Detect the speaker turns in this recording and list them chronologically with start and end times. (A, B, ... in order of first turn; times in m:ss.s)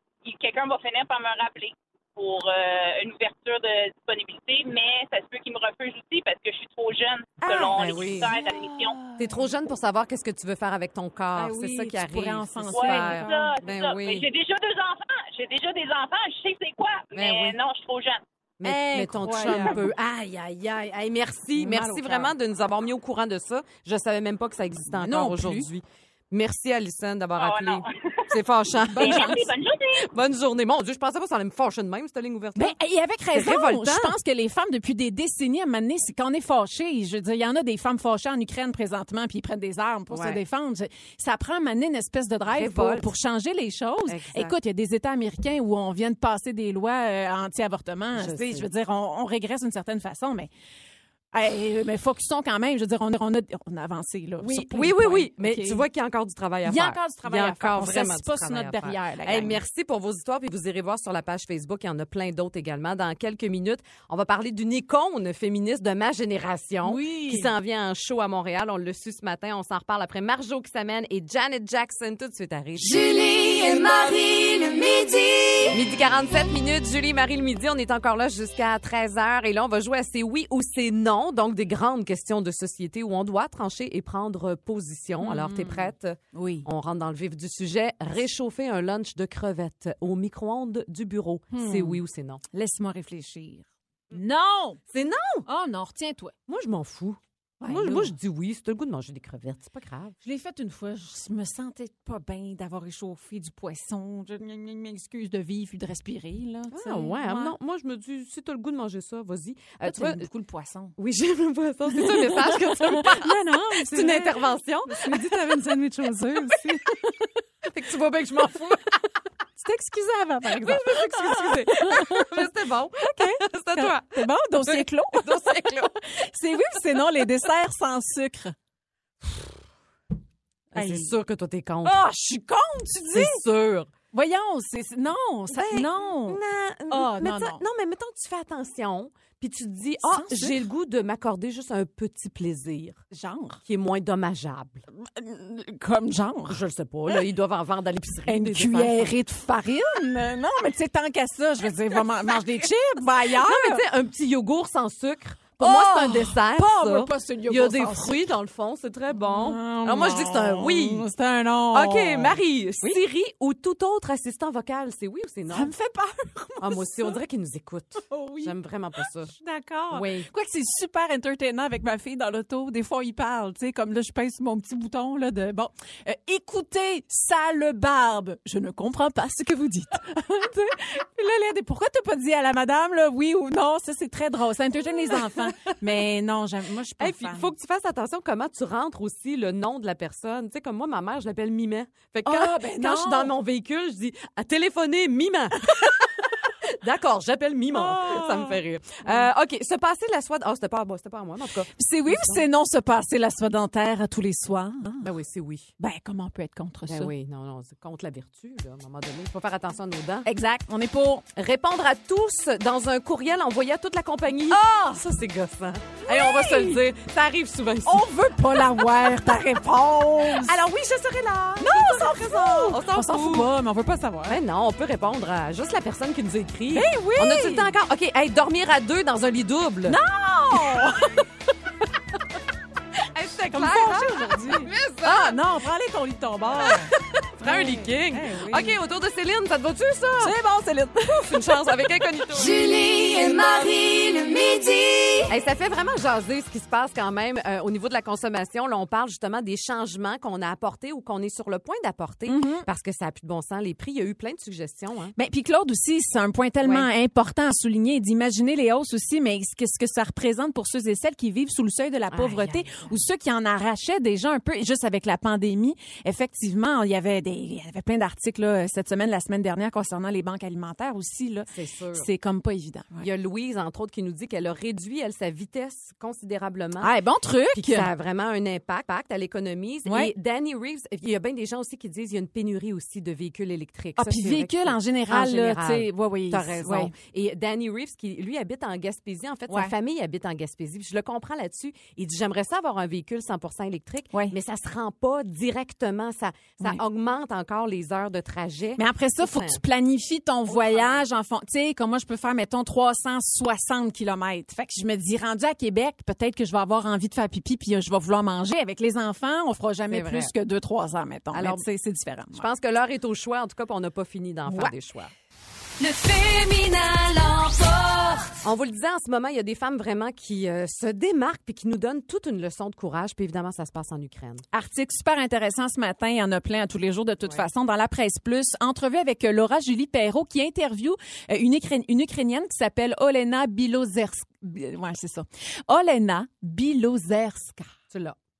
0:00.2-0:09.0 A
0:07.5-0:09.4 B
0:07.5-0:08.3 C
0:09.2-0:14.3 C
0:11.4-0:13.6 B
0:12.7-0:18.2 A
0:17.2-0:17.6 C
0:18.6-0:29.4 C
0:18.6-0:19.9 B
0:21.6-0:22.3 B
0:24.9-0:25.7 B
0:27.4-0:28.3 A
0:28.9-0:29.5 B
0:29.0-0:30.1 A
0:30.0-0:32.8 C
0:32.6-0:50.5 B
0:33.3-0:34.1 C
0:40.1-0:40.4 C
0:42.5-0:43.1 C
0:44.1-0:44.6 C
0:48.2-0:48.7 C
0:51.3-0:55.8 B
0:54.4-1:13.0 C
0:56.6-0:59.6 B
1:06.8-1:07.5 B
1:12.8-1:15.8 B
1:15.7-1:32.4 C
1:25.2-1:26.7 B
1:31.5-1:32.0 B
1:32.5-1:34.8 B
1:34.9-1:35.5 C
1:35.5-1:36.4 B
1:36.5-1:40.2 C
1:37.6-1:38.1 B
1:40.2-1:47.6 B
1:46.7-1:50.3 C
1:49.8-1:51.0 B
1:51.0-1:56.8 C
1:51.9-1:57.2 B
1:57.6-1:59.0 C
1:59.6-2:02.5 B
2:00.6-2:06.0 C
2:03.0-2:05.5 B
2:06.1-2:08.6 B
2:10.7-2:11.1 B
2:10.7-2:12.0 C
2:11.8-2:13.4 B
2:13.1-2:13.9 C
2:14.1-2:17.6 B
2:15.5-2:23.0 C
2:20.0-2:20.6 B
2:23.1-2:23.6 B
2:23.7-2:24.8 C
2:25.0-2:27.2 B
2:26.5-2:29.1 C
2:28.3-2:33.8 B
2:33.4-2:41.1 C
2:35.6-2:38.2 B
2:39.2-2:43.0 B
2:41.7-2:45.7 C
2:45.5-2:47.2 B
2:46.6-2:49.3 C
2:48.1-2:48.5 B
2:49.3-3:07.5 B
2:49.9-2:50.3 C
3:05.4-3:05.7 C
3:07.0-3:16.2 C
3:12.2-3:13.3 B
3:16.8-3:22.4 C
3:17.7-3:19.3 B
3:21.7-3:25.1 B
3:25.0-3:25.7 C
3:25.8-3:27.1 B
3:26.9-3:30.3 C
3:30.3-3:31.2 B
3:31.4-3:39.0 C
3:34.4-3:35.0 B
3:36.0-3:36.8 B
3:37.8-3:40.6 B
3:40.3-3:43.5 C
3:41.6-3:44.4 B
3:44.3-3:50.0 C
3:46.7-3:47.7 B
3:49.9-3:51.3 B
3:53.2-3:55.4 C
3:53.2-3:58.8 B
3:56.5-3:56.8 C
3:57.4-4:00.4 C
4:00.2-4:05.2 B
4:01.2-4:02.6 C
4:05.3-4:15.2 C
4:12.3-4:12.7 B
4:15.2-4:33.1 B
4:16.6-4:16.9 C
4:22.1-4:23.0 C
4:31.5-4:32.1 C
4:33.0-4:36.9 C
4:36.8-4:37.9 B
4:37.5-4:59.6 C
4:39.9-4:40.1 B
4:44.0-4:46.9 B
4:54.1-4:54.4 B
4:58.8-5:12.5 B
5:00.5-5:01.0 C
5:09.9-5:10.3 C
5:11.3-5:11.6 C
5:12.3-5:15.1 C
5:14.5-5:14.8 B
5:15.8-5:18.2 D
5:16.0-5:17.5 B
5:18.4-5:24.4 C
5:24.5-5:37.7 B
5:37.9-5:38.2 C